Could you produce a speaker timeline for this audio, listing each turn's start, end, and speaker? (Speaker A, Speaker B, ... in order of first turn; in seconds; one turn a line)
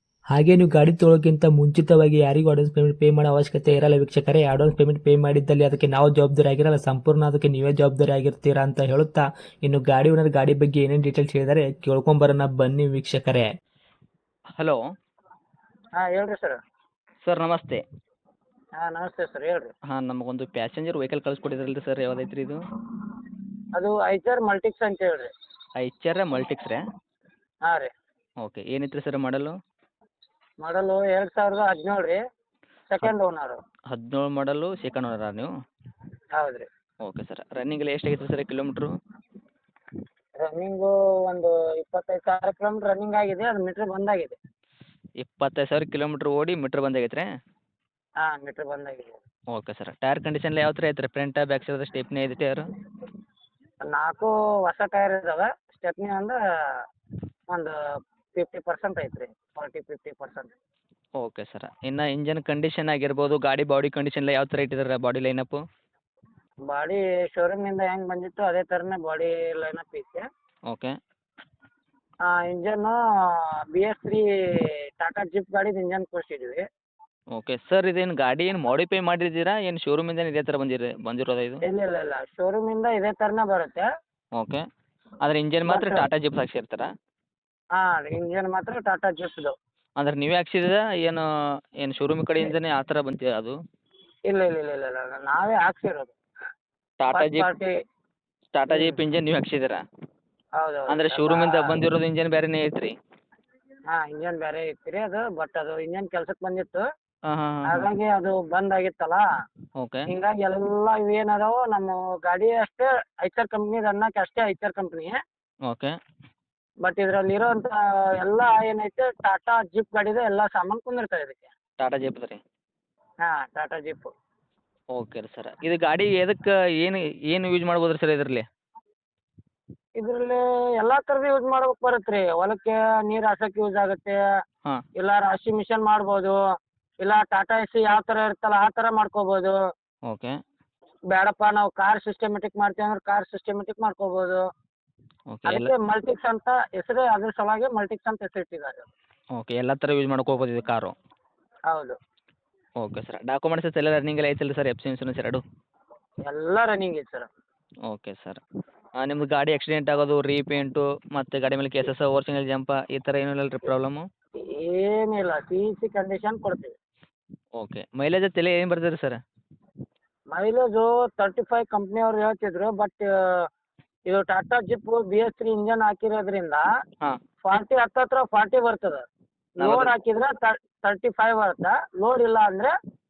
Speaker A: 0.3-13.5
Speaker B: 16.0-16.6
Speaker C: 17.2-17.8
Speaker B: 18.8-19.7
Speaker C: 19.9-22.6
Speaker B: 23.7-25.3
Speaker C: 25.8-26.8
Speaker B: 27.6-27.9
Speaker C: 28.4-29.5
Speaker B: 30.6-32.2
Speaker B: 32.9-33.6
Speaker C: 33.9-35.5
Speaker B: 36.3-36.7
Speaker C: 37.0-38.9
Speaker B: 40.4-44.4
Speaker C: 45.2-47.3
Speaker B: 48.2-49.2
Speaker C: 49.5-52.6
Speaker B: 53.9-56.4
Speaker B: 58.4-60.5
Speaker C: 61.2-65.6
Speaker B: 66.7-70.2
Speaker B: 72.3-74.2
Speaker B: 75.0-76.6
Speaker C: 77.3-81.6
Speaker B: 81.6-83.9
Speaker C: 84.3-84.6
Speaker C: 85.2-86.9
Speaker B: 85.7-86.1
Speaker B: 87.8-89.5
Speaker C: 90.0-91.2
Speaker C: 91.8-93.5
Speaker B: 94.3-96.1
Speaker C: 97.0-97.5
Speaker B: 97.1-97.7
Speaker C: 98.5-99.8
Speaker B: 98.7-99.0
Speaker B: 100.6-101.7
Speaker C: 100.9-102.9
Speaker B: 103.9-106.8
Speaker C: 107.3-107.9
Speaker B: 107.7-109.2
Speaker C: 109.8-110.0
Speaker B: 110.1-115.2
Speaker C: 115.7-115.9
Speaker B: 116.8-121.5
Speaker C: 121.8-122.4
Speaker B: 123.2-124.1
Speaker C: 124.9-128.4
Speaker B: 130.0-134.2
Speaker B: 135.0-136.4
Speaker B: 137.0-139.6
Speaker C: 140.1-140.3
Speaker B: 141.1-144.4
Speaker C: 145.3-145.7
Speaker B: 145.4-148.8
Speaker C: 149.3-150.9
Speaker B: 151.7-152.0
Speaker C: 152.8-155.4
Speaker B: 156.2-157.3
Speaker C: 157.8-158.4
Speaker C: 159.0-164.0
Speaker B: 164.4-166.7
Speaker C: 167.6-169.2
Speaker B: 170.3-173.4
Speaker B: 174.1-176.7
Speaker B: 177.4-179.0
Speaker C: 179.6-179.9
Speaker B: 179.6-182.7